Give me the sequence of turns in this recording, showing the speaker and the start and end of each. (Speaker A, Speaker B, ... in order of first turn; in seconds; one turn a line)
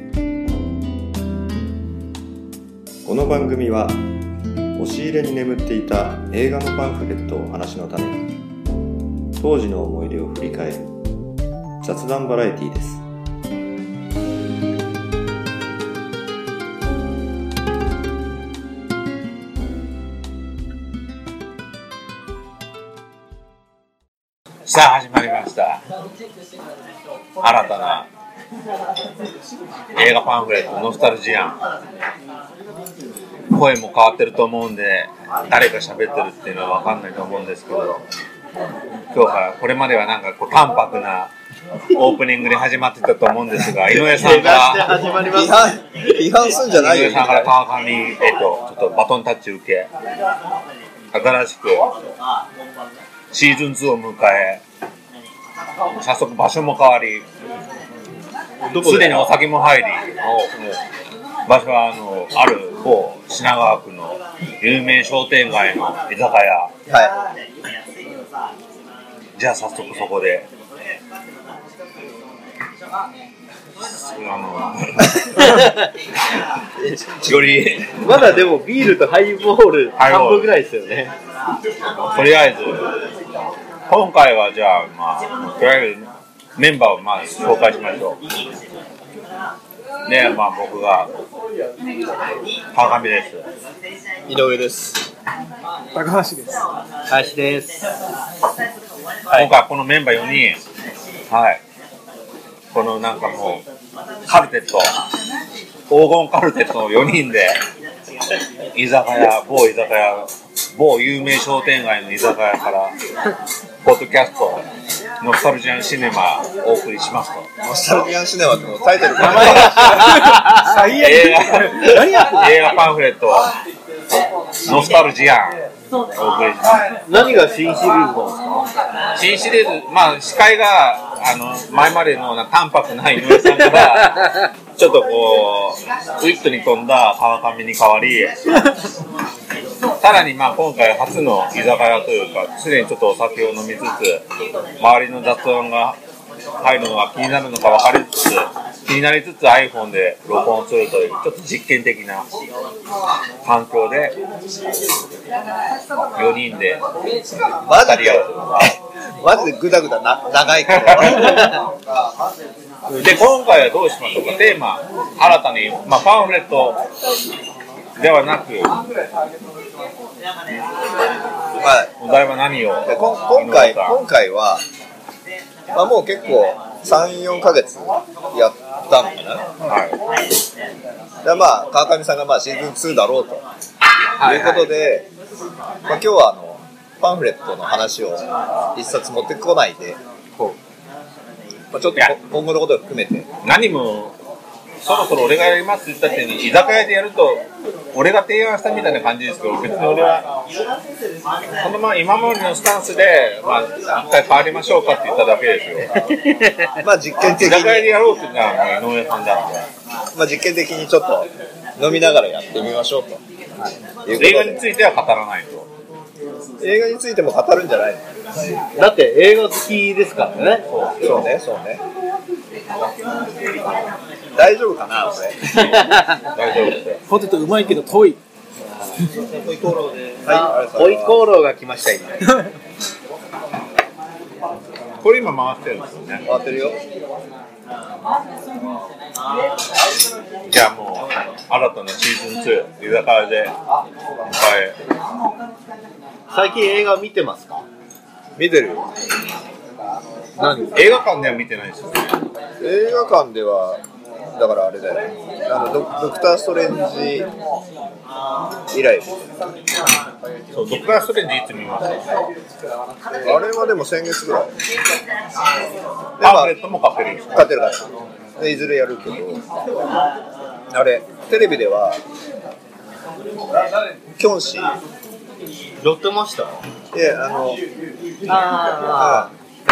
Speaker A: 3.0-4.0
Speaker A: 4.7-8.3
Speaker A: 9.4-10.9
Speaker A: 11.8-13.0
Speaker B: 24.6-25.8
Speaker B: 27.4-28.1
Speaker B: 29.9-31.6
Speaker B: 33.5-38.0
Speaker B: 39.1-41.3
Speaker B: 41.9-45.0
Speaker C: 44.0-45.6
Speaker D: 45.3-47.5
Speaker B: 46.7-49.9
Speaker B: 51.1-51.9
Speaker B: 53.3-54.6
Speaker B: 56.0-57.2
Speaker D: 58.7-59.3
Speaker B: 58.8-60.0
Speaker D: 60.2-60.8
Speaker B: 61.5-66.7
Speaker D: 66.9-67.1
Speaker B: 69.4-70.5
Speaker B: 74.2-75.5
Speaker D: 76.8-77.9
Speaker C: 78.0-81.1
Speaker B: 80.0-80.5
Speaker B: 82.1-82.9
Speaker B: 83.9-88.2
Speaker B: 90.0-91.1
Speaker B: 92.7-93.4
Speaker D: 94.3-95.0
Speaker E: 95.9-96.6
Speaker C: 97.1-97.8
Speaker B: 99.3-100.6
Speaker B: 101.3-101.6
Speaker B: 102.7-103.6
Speaker B: 104.2-104.9
Speaker B: 105.9-107.6
Speaker B: 108.7-112.9
Speaker B: 113.8-114.6
Speaker B: 115.2-117.5
Speaker D: 117.6-120.0
Speaker B: 119.2-123.5
Speaker C: 119.2-120.7
Speaker E: 119.9-122.5
Speaker C: 121.8-122.4
Speaker B: 124.6-125.6
Speaker B: 126.1-126.8
Speaker C: 127.0-128.7
Speaker B: 129.1-138.7
Speaker C: 133.8-134.3
Speaker B: 140.0-144.2
Speaker B: 144.8-146.0
Speaker B: 146.6-152.3
Speaker B: 153.4-154.1
Speaker B: 156.1-156.8
Speaker D: 157.6-161.5
Speaker B: 157.7-158.3
Speaker B: 160.7-161.4
Speaker B: 162.9-166.8
Speaker B: 168.0-168.8
Speaker D: 171.6-171.9
Speaker B: 172.0-173.9
Speaker D: 172.8-174.6
Speaker D: 175.7-179.4
Speaker B: 179.6-180.0
Speaker D: 181.2-183.4
Speaker C: 184.2-184.6
Speaker D: 184.2-185.1
Speaker D: 185.9-188.2
Speaker D: 188.7-190.0
Speaker D: 191.7-193.3
Speaker B: 193.4-194.1
Speaker B: 194.8-197.4
Speaker B: 197.9-200.2
Speaker B: 201.6-205.9
Speaker C: 206.1-206.7
Speaker D: 206.8-207.9
Speaker B: 207.4-209.7
Speaker D: 210.1-213.2
Speaker D: 214.0-214.6
Speaker B: 214.1-215.7
Speaker D: 216.6-218.0
Speaker C: 218.8-220.7
Speaker B: 220.7-221.2
Speaker D: 221.0-221.8
Speaker D: 224.3-225.4
Speaker C: 225.5-226.2
Speaker B: 225.5-227.0
Speaker E: 227.1-228.2
Speaker D: 230.2-231.2
Speaker C: 230.3-232.2
Speaker B: 235.0-236.2
Speaker D: 236.2-236.8
Speaker B: 240.4-243.5
Speaker B: 244.3-244.8
Speaker C: 246.3-247.6
Speaker D: 248.3-248.8
Speaker C: 250.4-250.8
Speaker B: 250.7-252.1
Speaker D: 252.6-253.8
Speaker D: 254.4-257.3
Speaker D: 258.7-259.2
Speaker B: 260.5-262.1
Speaker D: 263.2-264.5
Speaker D: 266.2-266.5
Speaker B: 266.2-267.5
Speaker D: 267.3-267.8
Speaker D: 268.4-269.4
Speaker D: 270.7-272.0
Speaker D: 274.2-274.7
Speaker C: 275.8-276.6
Speaker D: 276.9-277.6
Speaker C: 278.3-279.3
Speaker D: 279.0-279.3